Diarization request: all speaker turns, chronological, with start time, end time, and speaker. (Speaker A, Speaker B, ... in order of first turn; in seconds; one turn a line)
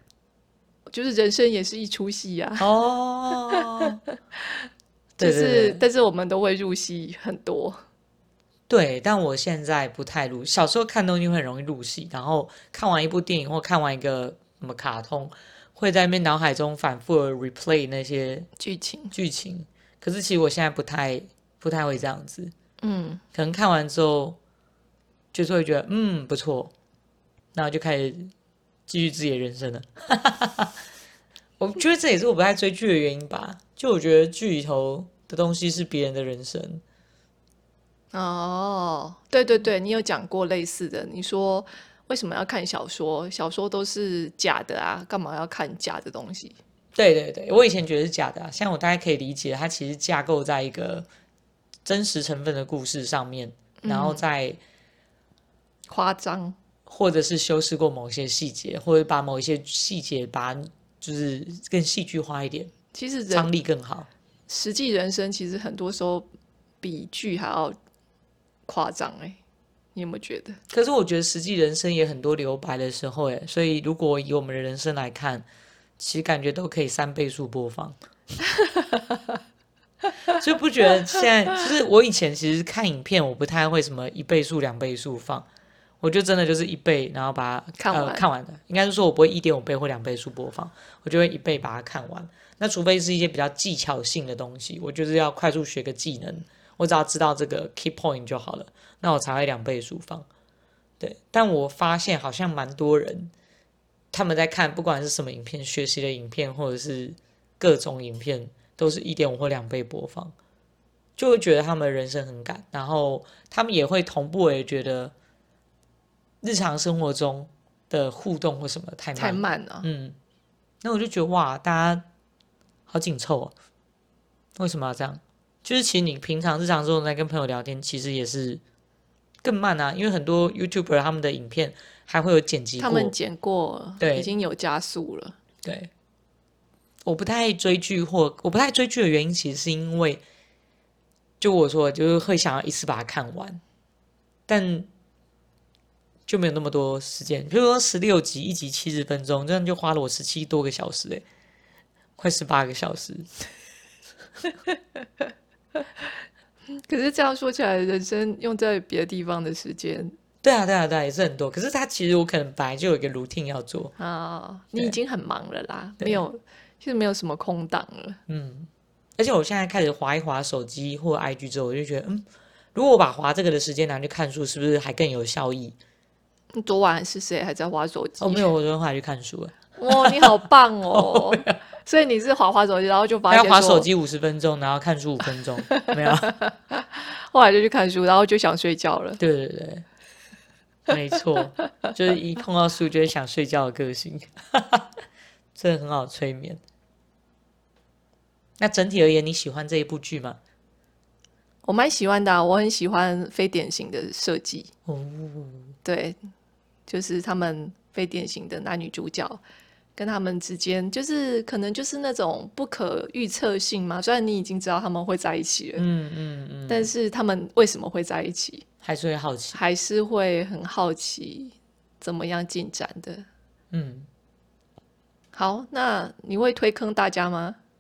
Speaker A: 0.9-2.7
Speaker B: 2.6-4.0
Speaker A: 3.5-3.9
Speaker B: 5.2-5.8
Speaker A: 5.2-7.8
Speaker B: 8.7-18.5
Speaker A: 18.6-19.1
Speaker B: 19.1-22.5
Speaker A: 22.8-23.2
Speaker B: 23.3-24.4
Speaker B: 25.3-26.7
Speaker B: 27.6-28.3
Speaker B: 28.9-30.8
Speaker B: 31.6-36.8
Speaker A: 38.1-46.6
Speaker B: 47.0-51.1
Speaker B: 51.9-54.6
Speaker A: 53.8-54.2
Speaker A: 55.9-56.6
Speaker B: 56.9-62.7
Speaker A: 62.9-63.5
Speaker B: 63.3-64.1
Speaker A: 64.5-66.3
Speaker A: 66.8-67.8
Speaker A: 68.7-69.4
Speaker A: 70.0-70.6
Speaker B: 70.7-75.5
Speaker B: 76.0-78.0
Speaker A: 78.6-79.2
Speaker B: 80.3-85.5
Speaker B: 86.0-100.3
Speaker A: 87.8-88.2
Speaker B: 101.0-103.3
Speaker B: 104.1-110.3
Speaker B: 111.2-115.1
Speaker B: 116.4-120.2
Speaker A: 119.2-119.9
Speaker B: 120.8-122.0
Speaker B: 122.9-123.5
Speaker B: 124.6-128.6
Speaker B: 129.4-133.1
Speaker A: 132.8-135.4
Speaker B: 134.0-134.3
Speaker B: 135.6-135.9
Speaker B: 137.0-140.2
Speaker B: 141.4-143.6
Speaker B: 144.5-144.9
Speaker B: 146.3-151.2
Speaker B: 152.2-153.3
Speaker A: 156.7-160.1
Speaker B: 160.4-163.9
Speaker A: 164.0-168.2
Speaker B: 168.3-175.8
Speaker A: 176.5-178.5
Speaker B: 178.2-181.6
Speaker A: 179.8-183.9
Speaker B: 183.3-186.4
Speaker A: 185.7-189.2
Speaker B: 189.2-189.8
Speaker B: 190.9-194.9
Speaker B: 195.6-196.6
Speaker B: 198.6-200.4
Speaker A: 201.6-204.7
Speaker B: 204.9-205.7
Speaker A: 205.8-206.2
Speaker A: 206.9-209.4
Speaker A: 210.0-215.8
Speaker B: 215.8-216.9
Speaker A: 216.7-218.7
Speaker B: 218.8-219.6
Speaker A: 219.5-223.2
Speaker B: 223.7-224.1
Speaker A: 225.3-227.6